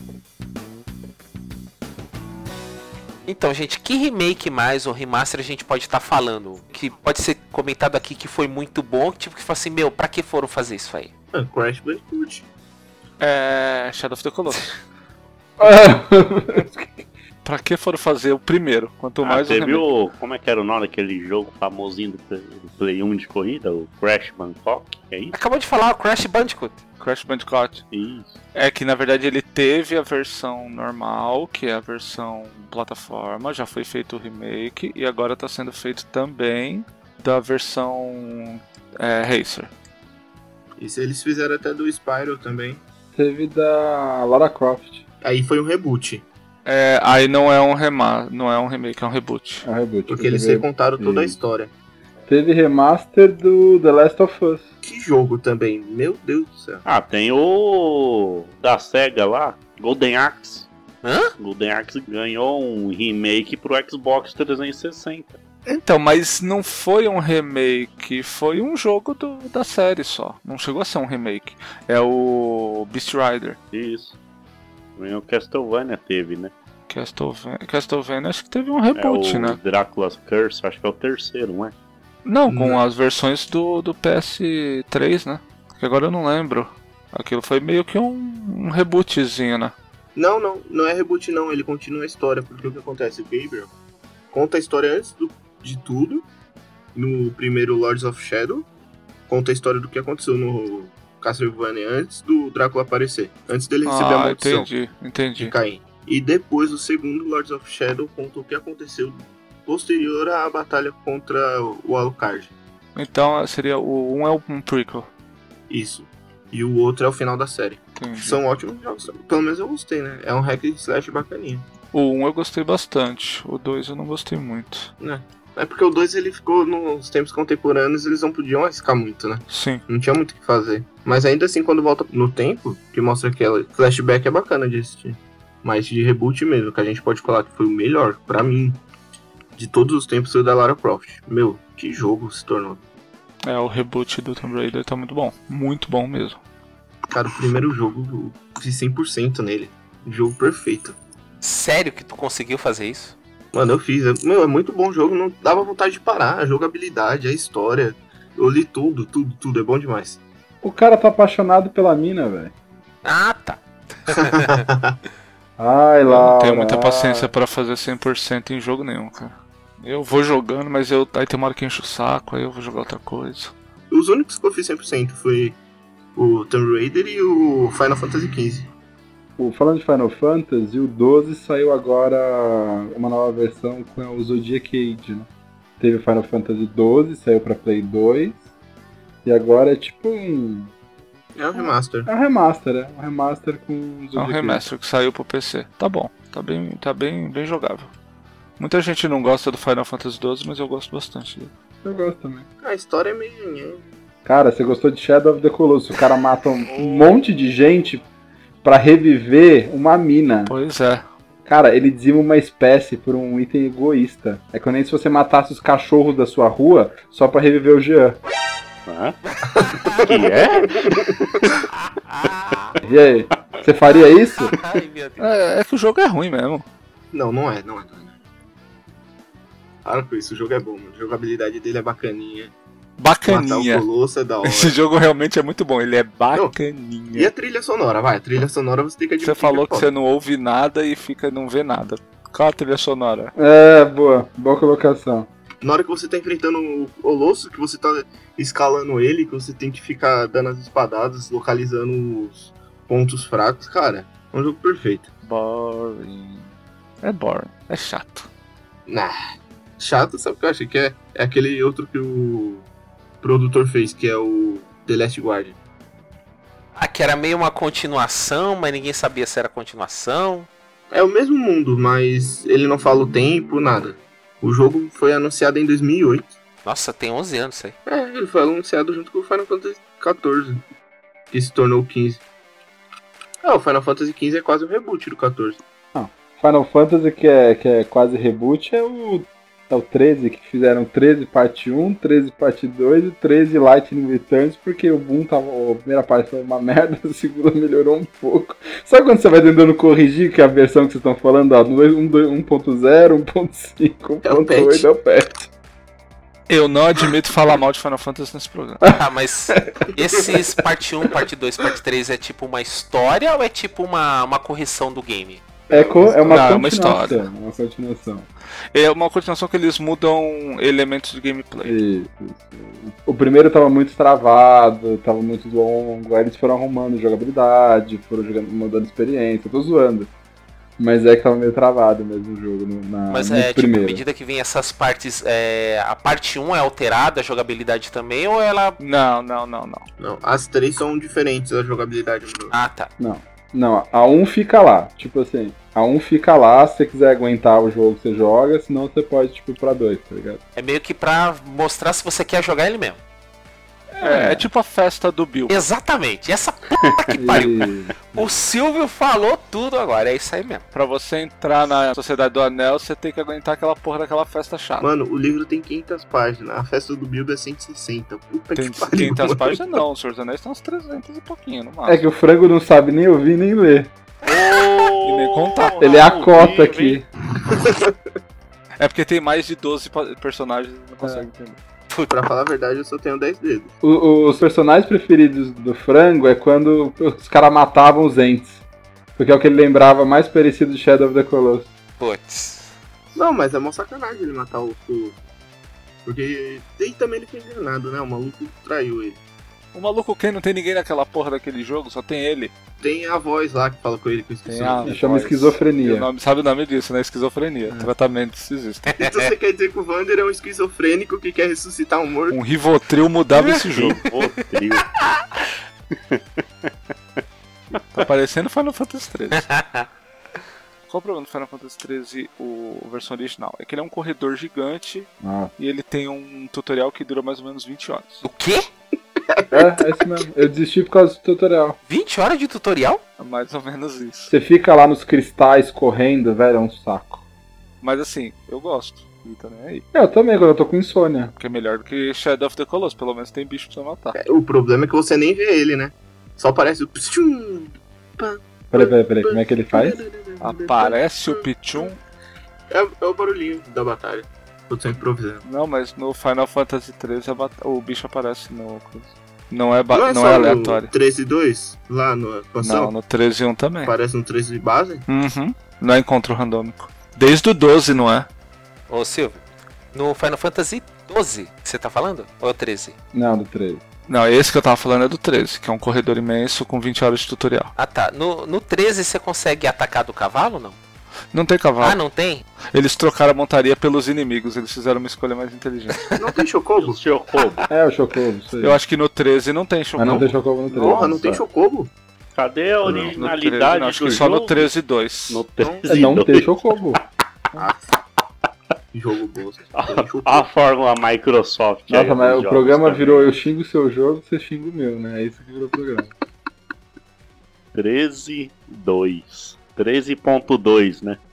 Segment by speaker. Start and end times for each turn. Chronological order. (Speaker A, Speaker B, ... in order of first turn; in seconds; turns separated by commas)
Speaker A: 3.3-11.1, Speaker B: 11.3-12.4, Speaker C: 13.2-14.8, Speaker D: 15.6-17.1, Speaker C: 17.4-19.9, Speaker E: 19.2-25.3, Speaker A: 25.3-26.8, Speaker C: 27.0-27.8, Speaker E: 27.9-28.4, Speaker C: 28.5-39.7, Speaker B: 40.8-42.8, Speaker D: 43.1-45.0, Speaker B: 45.2-46.2, Speaker C: 46.7-49.7, Speaker D: 49.6-51.4, Speaker B: 50.1-51.7, Speaker D: 52.3-54.6, Speaker B: 54.8-56.8, Speaker E: 56.9-60.7, Speaker A: 61.0-61.3, Speaker E: 61.4-65.4, Speaker C: 65.7-73.6, Speaker E: 73.7-74.2, Speaker E: 75.0-76.5, Speaker C: 76.9-79.6, Speaker E: 79.0-81.8, Speaker C: 82.2-89.7, Speaker B: 82.5-82.8, Speaker B: 90.2-93.7, Speaker B: 94.3-96.2, Speaker B: 97.0-98.7, Speaker B: 99.3-104.7, Speaker C: 103.8-105.5, Speaker B: 105.4-112.5, Speaker C: 113.0-115.1, Speaker B: 115.7-121.7, Speaker C: 118.0-118.4, Speaker C: 121.9-124.9, Speaker B: 125.0-138.8, Speaker C: 129.5-129.8, Speaker B: 139.6-142.8, Speaker C: 143.4-146.4, Speaker B: 147.1-151.0, Speaker A: 151.4-153.2, Speaker B: 153.5-160.2, Speaker D: 160.6-162.5, Speaker A: 163.0-164.6, Speaker B: 164.1-165.0, Speaker D: 165.6-167.3, Speaker C: 166.1-173.5, Speaker B: 173.9-175.6, Speaker B: 176.2-178.7, Speaker D: 179.4-185.3, Speaker D: 185.8-188.4, Speaker D: 189.2-190.7, Speaker B: 191.3-192.1, Speaker D: 191.5-194.6, Speaker C: 194.2-197.9, Speaker C: 198.6-201.5, Speaker D: 201.8-202.5, Speaker B: 202.6-203.8, Speaker D: 204.2-208.0, Speaker D: 208.6-210.5, Speaker C: 210.5-211.1, Speaker D: 211.4-218.2, Speaker E: 218.9-219.2, Speaker A: 219.3-220.1, Speaker B: 219.6-221.3, Speaker E: 220.0-220.8, Speaker A: 221.9-222.8, Speaker D: 222.8-224.5, Speaker A: 224.0-225.3, Speaker C: 225.2-226.7, Speaker B: 227.1-228.2, Speaker B: 229.8-232.5, Speaker C: 233.0-233.9, Speaker B: 233.3-234.8, Speaker C: 234.4-237.3, Speaker B: 237.1-239.9, Speaker C: 239.2-243.3, Speaker D: 243.4-245.3, Speaker B: 245.6-255.1, Speaker C: 255.2-258.3, Speaker B: 258.9-259.1, Speaker B: 259.8-262.7, Speaker B: 263.2-265.6, Speaker A: 266.8-270.5, Speaker B: 270.9-276.3, Speaker A: 276.6-277.8, Speaker B: 277.9-280.6, Speaker B: 281.3-282.2, Speaker B: 283.4-285.6, Speaker D: 285.9-305.5, Speaker B: 304.2-304.9, Speaker C: 306.5-308.8, Speaker D: 308.8-309.9, Speaker A: 308.9-315.6, Speaker B: 315.7-316.5, Speaker D: 315.7-318.3, Speaker C: 316.3-317.3, Speaker C: 318.7-321.8, Speaker D: 321.6-330.1, Speaker D: 330.8-334.0, Speaker A: 333.1-338.8, Speaker C: 338.8-339.9, Speaker B: 340.0-342.5, Speaker A: 342.5-342.9, Speaker D: 343.0-350.4, Speaker A: 350.6-353.0, Speaker D: 353.9-354.5, Speaker C: 354.0-355.6, Speaker A: 355.5-360.6, Speaker E: 356.9-357.4, Speaker D: 357.2-358.0, Speaker C: 360.7-364.9, Speaker B: 364.8-369.6, Speaker C: 368.6-372.1, Speaker D: 371.9-373.9, Speaker E: 374.2-377.0, Speaker A: 374.3-374.9, Speaker C: 375.0-375.8, Speaker D: 375.8-377.1, Speaker B: 377.5-378.0, Speaker C: 378.8-381.6, Speaker D: 381.0-381.3, Speaker B: 382.1-383.7, Speaker D: 383.8-388.6, Speaker D: 389.2-391.7, Speaker A: 392.0-392.7, Speaker B: 393.1-395.2, Speaker B: 396.1-399.2, Speaker C: 399.7-402.5, Speaker B: 402.8-405.0, Speaker C: 404.5-408.9, Speaker D: 404.8-406.1, Speaker B: 409.0-412.4, Speaker C: 412.3-414.0, Speaker A: 413.4-413.6, Speaker E: 413.8-414.9, Speaker A: 414.8-415.2, Speaker E: 415.9-417.2, Speaker C: 417.9-419.5, Speaker A: 419.3-419.9, Speaker C: 420.9-428.3, Speaker D: 425.2-425.5, Speaker A: 428.2-428.7, Speaker B: 429.3-430.1, Speaker D: 429.5-431.8, Speaker A: 431.9-433.0, Speaker C: 433.2-434.3, Speaker D: 434.3-437.2, Speaker C: 437.8-439.9, Speaker D: 439.9-441.3, Speaker C: 441.4-444.2, Speaker B: 444.1-451.9, Speaker D: 448.7-450.0, Speaker C: 450.4-452.0, Speaker B: 452.7-455.4, Speaker C: 455.4-460.9, Speaker B: 459.9-462.9, Speaker C: 462.6-463.9, Speaker B: 463.8-465.1, Speaker C: 465.1-468.3, Speaker A: 468.9-472.9, Speaker D: 473.1-473.8, Speaker C: 474.1-477.7, Speaker A: 477.8-480.8, Speaker C: 481.3-482.0, Speaker A: 481.8-482.4, Speaker C: 482.7-486.0, Speaker A: 486.0-486.3, Speaker B: 486.2-487.0, Speaker E: 486.8-487.7, Speaker D: 487.7-488.8, Speaker C: 488.6-490.4, Speaker D: 490.0-491.4, Speaker B: 490.7-491.9, Speaker E: 492.4-494.7, Speaker B: 492.9-493.1, Speaker C: 492.9-495.4, Speaker E: 495.3-496.6, Speaker B: 495.6-496.1, Speaker D: 495.9-497.0, Speaker B: 497.6-497.8, Speaker B: 498.9-500.5, Speaker E: 499.8-503.3, Speaker D: 501.9-506.1, Speaker E: 507.7-511.2